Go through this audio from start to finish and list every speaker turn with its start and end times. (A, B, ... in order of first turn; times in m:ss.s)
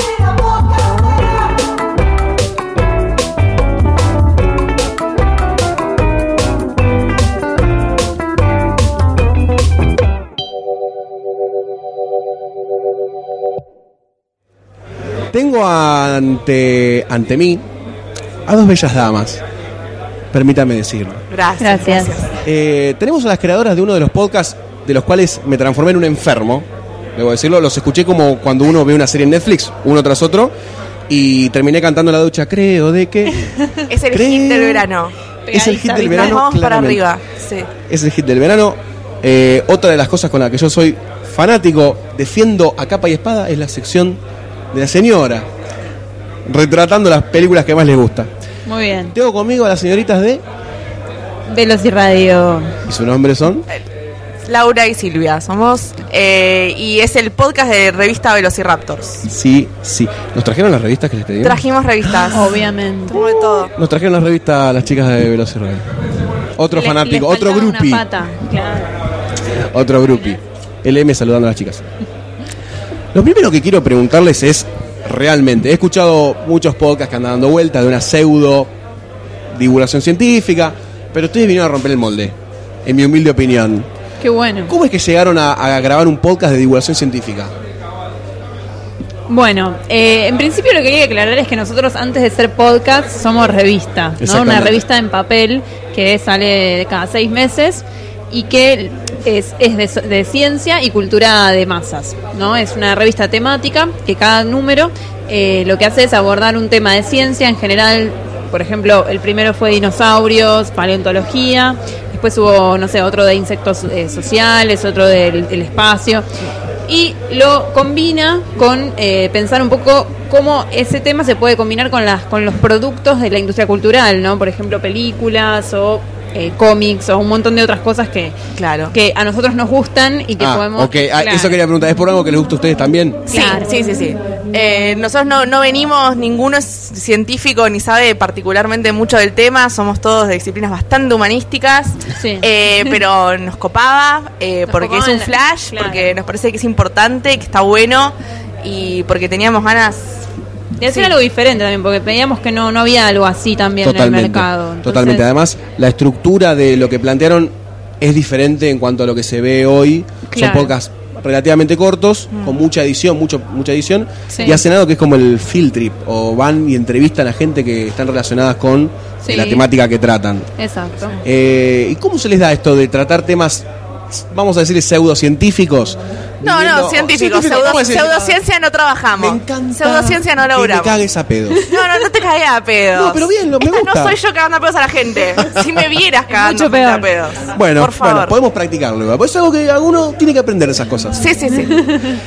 0:15.3-0:17.6 A
0:18.5-0:19.4 A
0:20.3-0:21.2 A
0:21.3-0:22.4 B
0:21.6-0:22.2 C
0:22.4-0:30.5 A
0:31.1-0:33.4 A
0:33.9-0:35.2 B
0:34.1-0:34.9 A
0:35.5-0:36.4 C
0:35.5-0:37.0 A
0:36.1-0:37.7 B
0:37.9-0:44.2 A
0:44.7-0:45.5 A
0:46.5-0:48.3 A
0:48.7-0:49.2 C
0:49.1-0:50.4 A
0:51.5-0:52.7 C
0:52.9-0:53.7 A
0:54.5-0:59.3 B
0:59.3-1:05.8 A
1:01.4-1:02.5 B
1:02.3-1:03.2 C
1:03.1-1:03.7 B
1:06.6-1:08.0 A
1:06.7-1:09.0 C
1:09.7-1:11.9 A
1:13.1-1:18.7 A
1:19.5-1:22.3 A
1:22.8-1:23.9 A
1:24.2-1:24.7 C
1:24.7-1:27.5 A
1:29.3-1:56.3 C
1:34.2-1:34.8 A
1:56.9-2:08.4 C
2:08.6-2:09.0 B
2:08.9-2:11.6 C
2:10.4-2:13.2 A
2:13.3-2:30.3 B
2:13.3-2:13.7 C
2:22.1-2:23.0 C
2:24.7-2:26.1 C
2:30.8-2:35.3 C
2:30.9-2:31.1 B
2:33.8-2:50.5 A
2:40.3-2:40.7 C
2:44.3-2:44.6 C
2:49.2-2:49.7 C
2:50.6-2:51.2 C
2:51.2-2:58.4 A
2:56.4-3:01.0 B
2:59.2-3:01.7 A
3:01.7-3:08.4 B
3:03.0-3:04.2 A
3:06.3-3:07.1 C
3:07.5-3:11.3 A
3:11.2-3:11.7 B
3:11.5-3:12.1 C